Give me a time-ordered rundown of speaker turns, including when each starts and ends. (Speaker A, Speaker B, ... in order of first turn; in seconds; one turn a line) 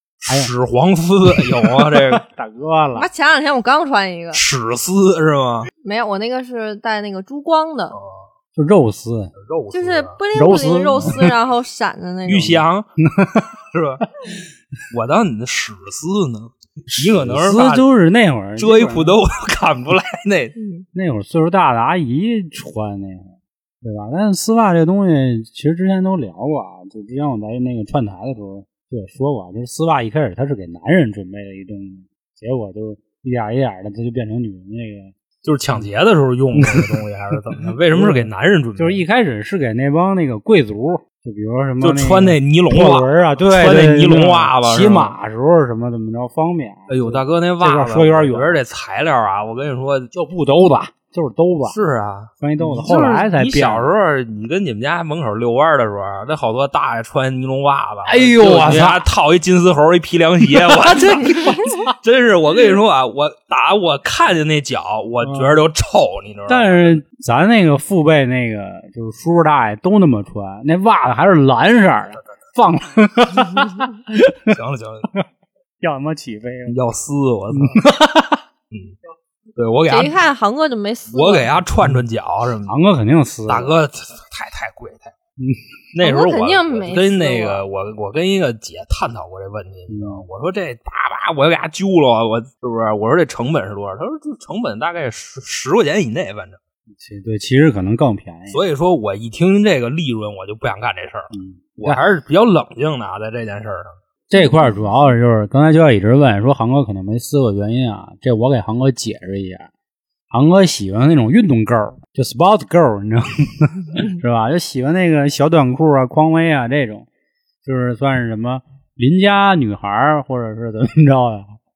Speaker A: 0.2-2.2
Speaker B: 0.3-0.5
Speaker B: 1.6-3.1
Speaker C: 3.0-4.4
Speaker A: 4.3-5.7
Speaker C: 5.8-8.0
Speaker A: 7.9-8.3
Speaker B: 8.5-9.3
Speaker A: 9.4-10.2
Speaker C: 9.7-12.6
Speaker B: 10.3-11.3
Speaker A: 11.0-11.3
Speaker A: 12.3-12.9
Speaker B: 13.0-13.6
Speaker A: 13.7-14.1
Speaker A: 14.9-17.9
Speaker B: 16.9-19.2
Speaker A: 18.6-20.6
Speaker C: 20.6-20.9
Speaker B: 20.9-35.1
Speaker A: 35.4-39.0
Speaker B: 36.5-37.0
Speaker B: 37.9-48.6
Speaker A: 41.8-45.2
Speaker A: 46.9-50.1
Speaker B: 50.1-51.8
Speaker A: 51.6-67.0
Speaker B: 52.4-53.9
Speaker B: 58.0-59.1
Speaker B: 60.5-61.9
Speaker B: 65.2-65.6
Speaker B: 66.5-74.5
Speaker A: 74.5-75.1
Speaker B: 75.8-76.8
Speaker A: 76.7-77.8
Speaker B: 77.5-78.4
Speaker A: 79.6-80.2
Speaker C: 79.9-81.5
Speaker A: 81.1-82.7
Speaker B: 82.7-83.7
Speaker A: 83.5-85.1
Speaker A: 85.9-96.6
Speaker C: 86.0-87.6
Speaker B: 89.9-90.2
Speaker B: 97.0-98.6
Speaker A: 98.5-104.0
Speaker B: 101.3-102.0
Speaker B: 104.3-109.7
Speaker B: 110.3-117.1
Speaker B: 117.6-121.6